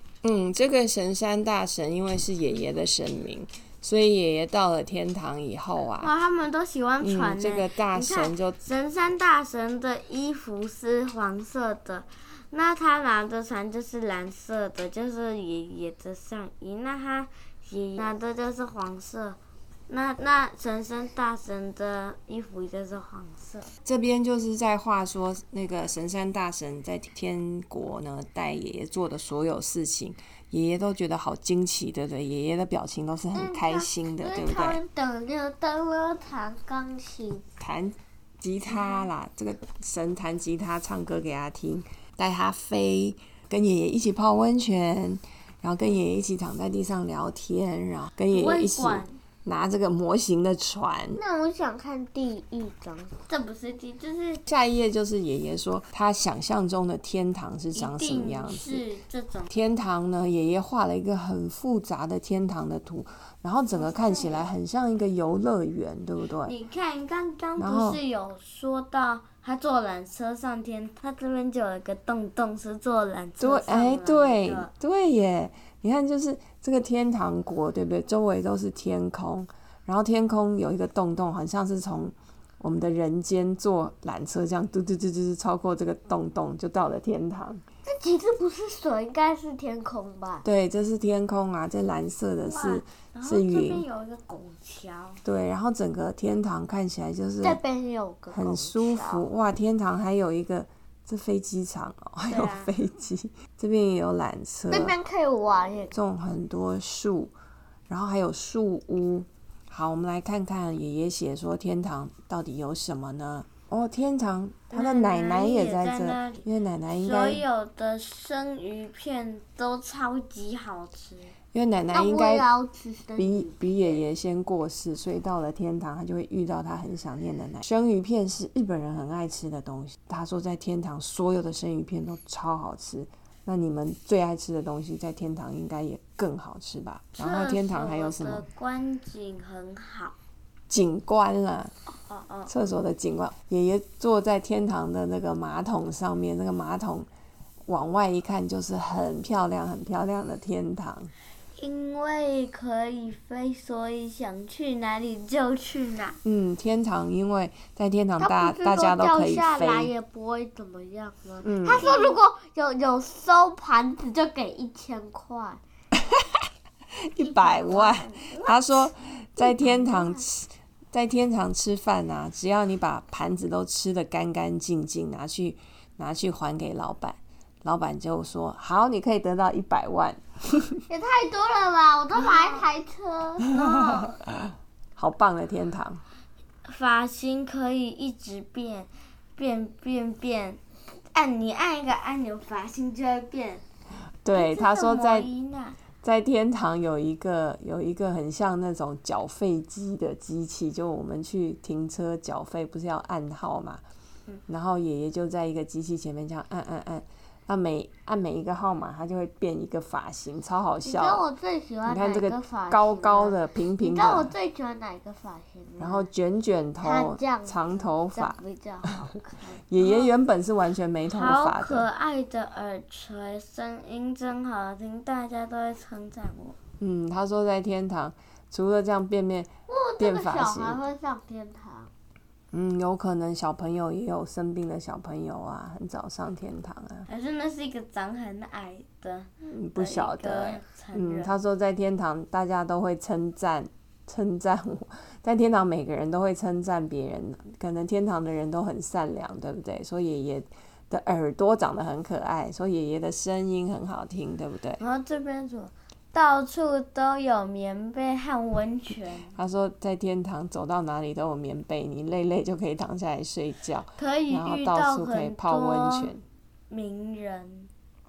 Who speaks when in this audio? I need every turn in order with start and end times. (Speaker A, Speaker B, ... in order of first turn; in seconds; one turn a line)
Speaker A: 0.2-6.1
Speaker B: 6.0-23.7
Speaker A: 7.0-8.6
Speaker A: 23.9-34.8
Speaker C: 33.3-37.4
Speaker A: 37.6-51.2
Speaker B: 48.3-49.2
Speaker C: 51.1-53.2
Speaker B: 53.3-54.4
Speaker A: 54.5-58.8
Speaker B: 57.8-59.5
Speaker A: 59.5-66.5
Speaker B: 63.7-64.5
Speaker B: 66.4-74.7
Speaker A: 67.6-68.0
Speaker A: 73.4-87.6
Speaker C: 87.9-90.4
Speaker A: 90.4-93.8
Speaker B: 92.4-95.2
Speaker A: 95.2-97.6
Speaker C: 97.4-99.2
Speaker A: 98.3-105.0
Speaker B: 102.3-102.8
Speaker C: 104.7-105.9
Speaker A: 105.9-107.3
Speaker A: 107.9-117.4
Speaker B: 114.7-121.3
Speaker A: 121.5-122.5
Speaker C: 121.9-123.7
Speaker A: 123.2-138.4
Speaker B: 137.2-140.2
Speaker A: 140.7-141.7
Speaker B: 142.1-142.5
Speaker A: 142.5-147.1
Speaker A: 147.7-151.1
Speaker B: 151.6-156.2
Speaker A: 156.2-159.9
Speaker C: 158.2-165.6
Speaker A: 161.4-161.9
Speaker B: 161.8-162.2
Speaker A: 167.0-180.8
Speaker C: 167.3-168.5
Speaker B: 167.4-168.0
Speaker C: 169.4-170.2
Speaker C: 180.9-183.5
Speaker B: 182.2-182.6
Speaker B: 183.5-184.1
Speaker A: 183.6-186.0
Speaker B: 186.6-193.6
Speaker A: 194.2-195.3
Speaker B: 194.3-195.8
Speaker A: 196.0-203.8
Speaker A: 204.5-211.3
Speaker C: 210.8-216.1
Speaker A: 211.8-214.3
Speaker A: 215.8-218.4
Speaker C: 216.8-219.6
Speaker A: 219.7-221.9
Speaker B: 219.8-220.1
Speaker B: 221.1-226.6
Speaker A: 226.8-230.8
Speaker C: 229.7-231.9
Speaker A: 232.5-237.1
Speaker B: 237.1-241.3
Speaker A: 239.4-254.8
Speaker B: 254.8-259.3
Speaker A: 259.3-266.2
Speaker B: 264.0-266.1
Speaker B: 266.7-267.7